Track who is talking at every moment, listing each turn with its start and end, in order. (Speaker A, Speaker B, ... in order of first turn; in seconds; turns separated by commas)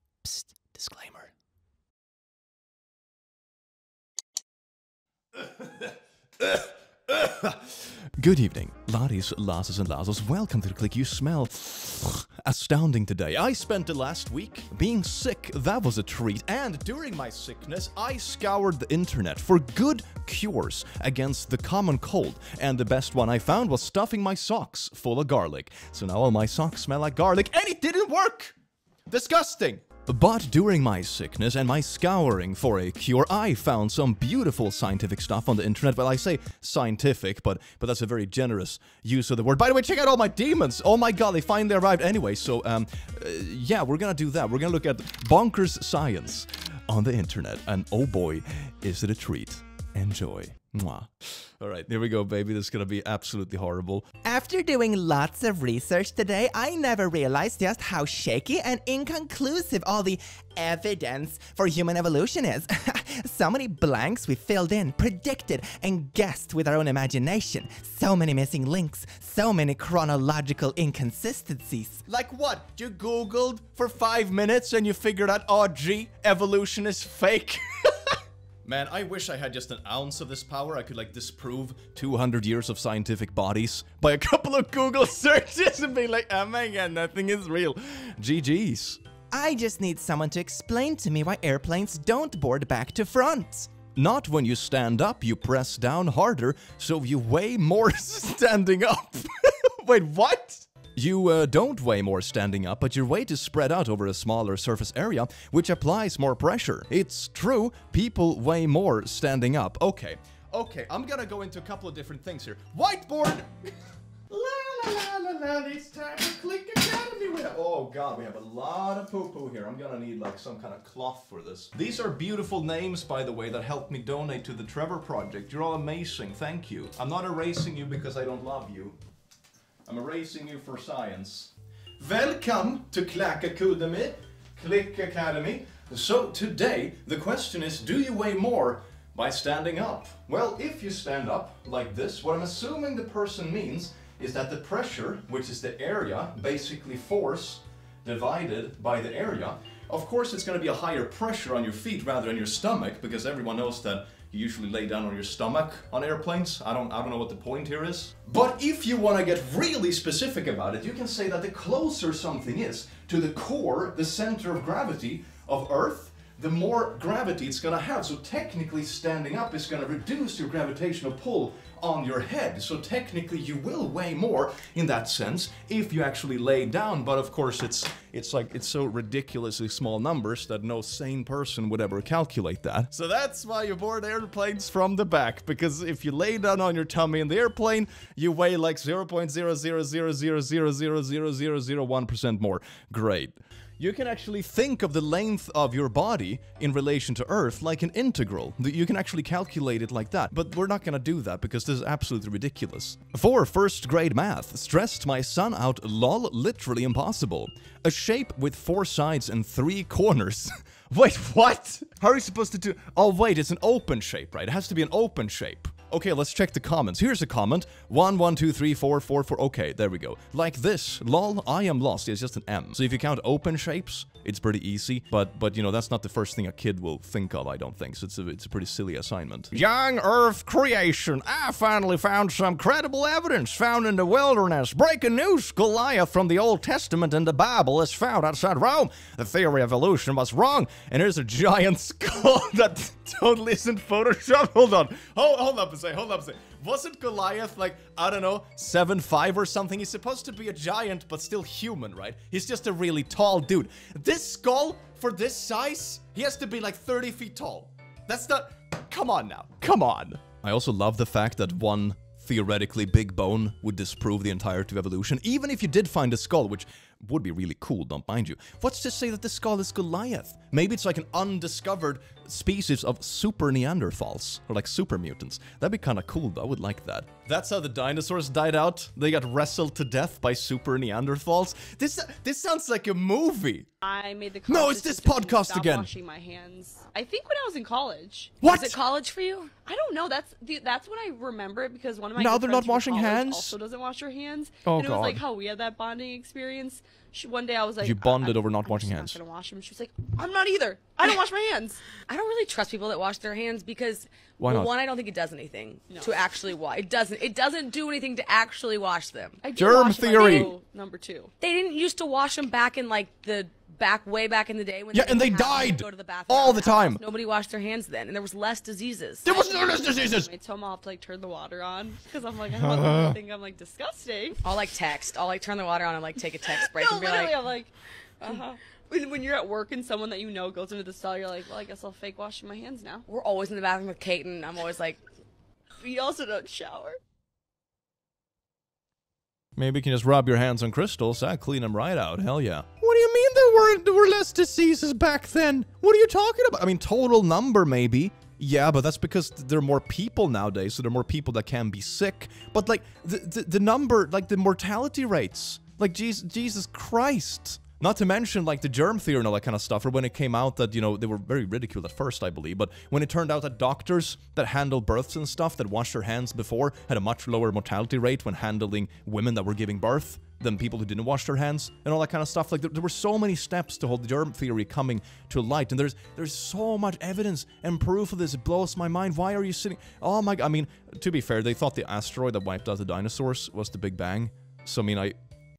Speaker A: 0.2-1.3, Speaker A: 5.4-5.9, Speaker A: 6.4-28.6, Speaker A: 29.1-54.1, Speaker B: 54.2-72.1, Speaker A: 72.1-89.0, Speaker B: 89.3-93.7, Speaker A: 93.9-113.7, Speaker A: 114.3-129.0, Speaker A: 129.9-283.7, Speaker C: 283.8-288.4, Speaker A: 284.5-285.9, Speaker A: 288.4-288.8, Speaker D: 288.4-289.5, Speaker C: 289.6-301.9, Speaker A: 292.2-293.6, Speaker A: 294.6-295.2, Speaker A: 297.8-299.2, Speaker D: 302.1-310.5, Speaker A: 304.4-304.7, Speaker C: 305.9-306.2, Speaker C: 309.4-311.3, Speaker A: 309.6-310.5, Speaker D: 311.4-319.4, Speaker A: 314.9-317.0, Speaker A: 319.2-320.3, Speaker C: 319.3-324.4, Speaker A: 322.5-323.2, Speaker D: 324.4-327.4, Speaker C: 326.5-333.1, Speaker D: 333.1-335.0, Speaker C: 335.8-337.0, Speaker A: 339.6-385.2